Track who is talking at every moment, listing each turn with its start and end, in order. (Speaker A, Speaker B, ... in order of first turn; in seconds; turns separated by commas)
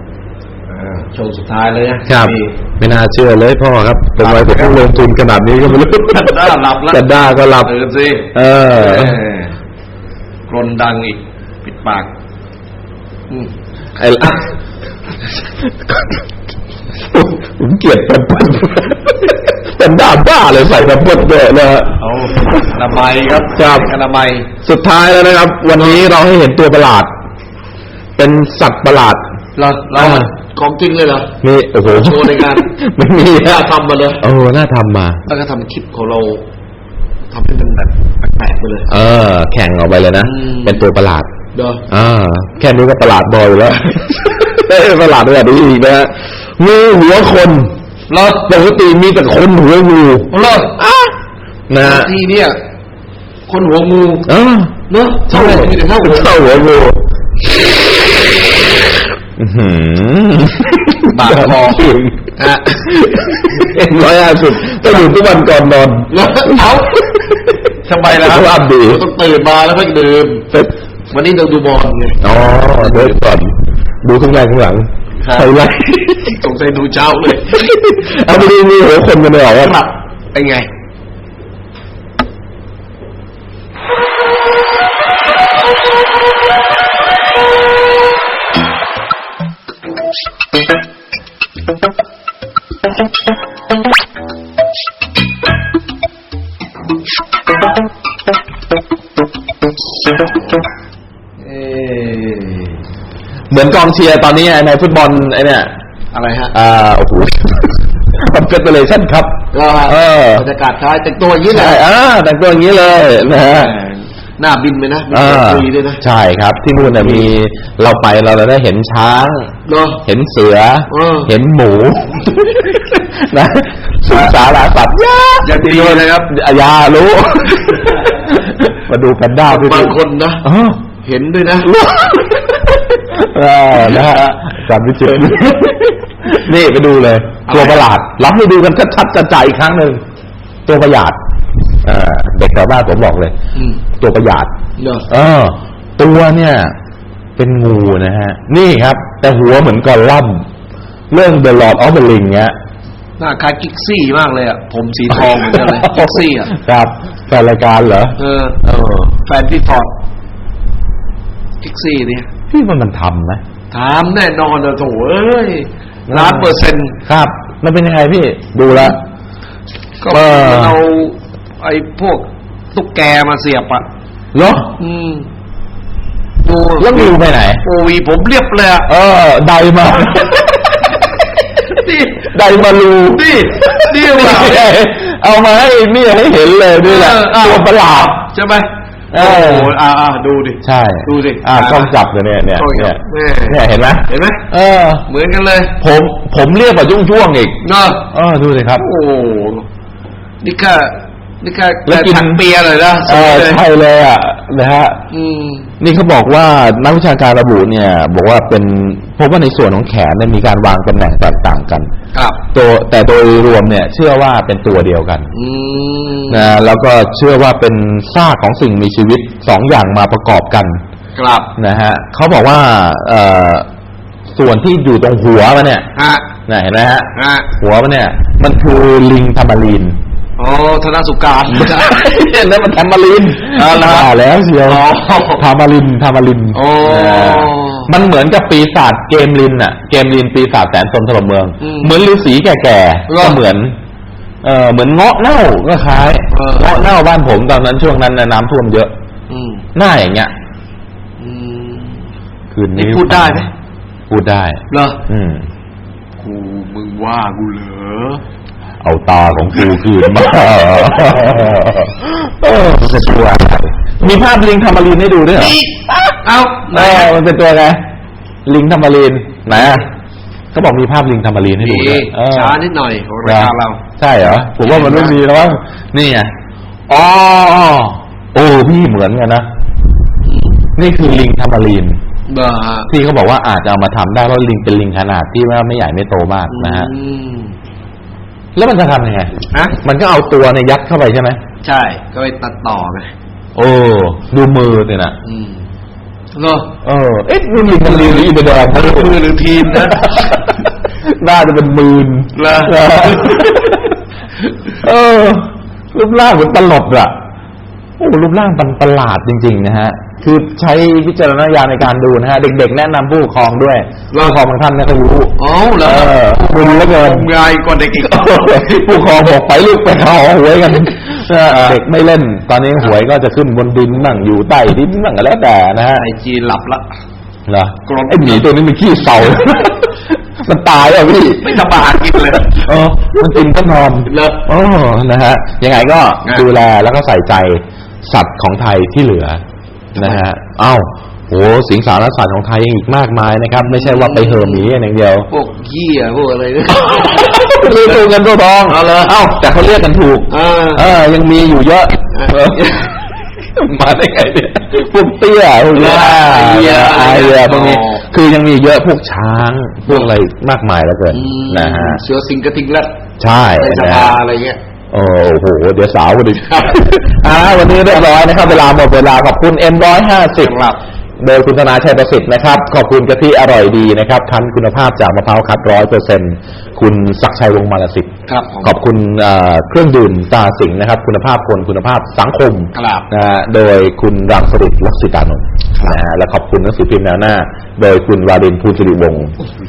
Speaker A: 0.7-2.6, Speaker B: 2.1-7.7, Speaker A: 4.2-5.0, Speaker A: 5.8-9.5, Speaker B: 8.3-9.2, Speaker A: 10.5-12.1, Speaker B: 14.0-14.5, Speaker B: 17.1-22.0, Speaker A: 22.0-24.5, Speaker B: 23.6-23.9, Speaker B: 24.6-27.1, Speaker B: 28.2-29.2, Speaker A: 29.6-32.7, Speaker B: 29.9-30.3, Speaker B: 31.4-33.7, Speaker A: 33.4-34.2, Speaker B: 34.2-35.2, Speaker A: 35.3-36.5, Speaker A: 37.3-38.9, Speaker B: 38.9-41.3, Speaker A: 40.2-40.8, Speaker A: 41.5-41.8, Speaker B: 41.9-47.7, Speaker A: 48.1-48.5, Speaker B: 48.4-51.1, Speaker A: 50.3-50.8, Speaker B: 51.7-52.1, Speaker A: 51.8-52.6, Speaker A: 53.5-54.3, Speaker B: 54.3-54.8, Speaker A: 54.9-56.6, Speaker B: 55.3-57.0, Speaker B: 59.4-62.2, Speaker A: 61.1-63.7, Speaker B: 62.8-66.9, Speaker A: 66.1-67.2, Speaker A: 67.8-70.5, Speaker B: 68.1-69.0, Speaker A: 71.1-73.3, Speaker B: 72.2-76.4, Speaker A: 75.2-75.5, Speaker A: 76.3-77.7, Speaker B: 77.5-79.9, Speaker A: 80.3-80.7, Speaker A: 101.4-102.8, Speaker B: 103.5-105.7, Speaker A: 106.1-106.6, Speaker B: 106.5-110.5, Speaker A: 109.5-111.8, Speaker B: 111.5-113.7, Speaker A: 113.5-116.0, Speaker B: 115.1-119.5, Speaker A: 116.8-117.3, Speaker A: 119.7-120.0, Speaker B: 120.0-130.8, Speaker A: 120.9-121.3, Speaker A: 125.4-126.3, Speaker A: 129.5-130.4, Speaker A: 131.0-131.7, Speaker B: 131.6-140.0, Speaker A: 133.8-134.4, Speaker A: 137.5-137.8, Speaker B: 140.7-141.2, Speaker B: 141.8-143.3, Speaker A: 143.6-143.8, Speaker B: 144.0-144.5, Speaker A: 144.8-145.1, Speaker B: 145.1-146.7, Speaker B: 147.4-150.5, Speaker B: 151.1-152.5, Speaker A: 153.2-156.5, Speaker B: 155.3-158.2, Speaker A: 158.2-159.9, Speaker A: 161.6-162.3, Speaker B: 162.5-163.4, Speaker A: 163.7-167.0, Speaker B: 166.1-169.0, Speaker A: 170.0-173.8, Speaker B: 170.1-170.8, Speaker B: 174.3-174.7, Speaker A: 174.8-175.3, Speaker A: 176.4-178.9, Speaker B: 176.8-177.6, Speaker B: 178.9-180.9, Speaker A: 181.7-182.3, Speaker B: 182.2-188.2, Speaker A: 183.1-184.7, Speaker A: 186.8-191.9, Speaker B: 189.1-189.7, Speaker B: 190.6-195.1, Speaker A: 192.6-194.5, Speaker A: 195.1-195.8, Speaker B: 195.8-198.9, Speaker A: 197.6-198.1, Speaker A: 198.8-199.7, Speaker A: 200.4-203.6, Speaker B: 201.9-202.4, Speaker B: 203.1-205.0, Speaker A: 205.1-205.7, Speaker B: 205.8-211.9, Speaker A: 212.1-212.4, Speaker B: 212.5-215.3, Speaker A: 215.3-216.6, Speaker B: 216.3-220.8, Speaker A: 221.2-221.5, Speaker B: 221.6-223.7, Speaker B: 224.3-225.9, Speaker A: 225.9-226.3, Speaker B: 226.5-230.0, Speaker A: 227.2-227.5, Speaker A: 230.4-231.9, Speaker B: 231.5-243.8, Speaker A: 233.5-235.4, Speaker A: 236.5-237.9, Speaker A: 241.6-242.0, Speaker A: 243.1-243.4, Speaker B: 244.4-248.9, Speaker A: 246.3-246.9, Speaker A: 249.3-249.7, Speaker B: 249.8-250.3, Speaker A: 251.2-252.1, Speaker B: 252.5-253.5, Speaker A: 252.8-253.5, Speaker B: 254.1-255.5, Speaker A: 254.7-255.0, Speaker A: 256.2-258.2, Speaker B: 258.8-265.6, Speaker A: 265.4-267.2, Speaker B: 266.7-267.8, Speaker B: 268.5-269.9, Speaker B: 270.5-272.6, Speaker A: 271.6-273.8, Speaker B: 273.2-276.3, Speaker A: 274.6-275.2, Speaker B: 276.9-279.5, Speaker A: 280.2-280.7, Speaker B: 280.8-282.0, Speaker A: 282.3-282.9, Speaker B: 282.9-286.9, Speaker A: 286.5-287.6, Speaker B: 288.6-291.4, Speaker A: 289.5-289.8, Speaker A: 291.6-293.1, Speaker B: 293.6-295.2, Speaker A: 295.2-295.6, Speaker A: 296.3-296.7, Speaker B: 296.8-299.2, Speaker A: 297.8-300.3, Speaker B: 299.7-303.9, Speaker A: 302.4-303.8, Speaker B: 304.8-307.1, Speaker B: 308.0-317.3, Speaker A: 314.1-314.4, Speaker A: 315.4-318.8, Speaker B: 318.0-326.1, Speaker A: 321.5-321.8, Speaker A: 325.9-326.9, Speaker B: 327.5-339.4, Speaker A: 327.9-328.5, Speaker A: 331.4-332.7, Speaker A: 334.1-334.4, Speaker A: 340.0-340.2, Speaker B: 340.0-345.3, Speaker A: 343.6-344.7, Speaker A: 345.3-347.5, Speaker B: 346.7-353.0, Speaker A: 348.7-349.2, Speaker A: 350.3-350.9, Speaker A: 352.1-352.9, Speaker B: 353.6-362.0, Speaker A: 355.7-358.0, Speaker A: 361.1-362.9, Speaker B: 363.2-364.2, Speaker A: 363.6-364.6, Speaker B: 364.9-370.5, Speaker A: 366.5-366.8, Speaker A: 370.4-370.8, Speaker B: 371.2-378.1, Speaker A: 378.3-378.8, Speaker B: 378.6-389.4, Speaker A: 382.7-383.1, Speaker A: 385.8-386.0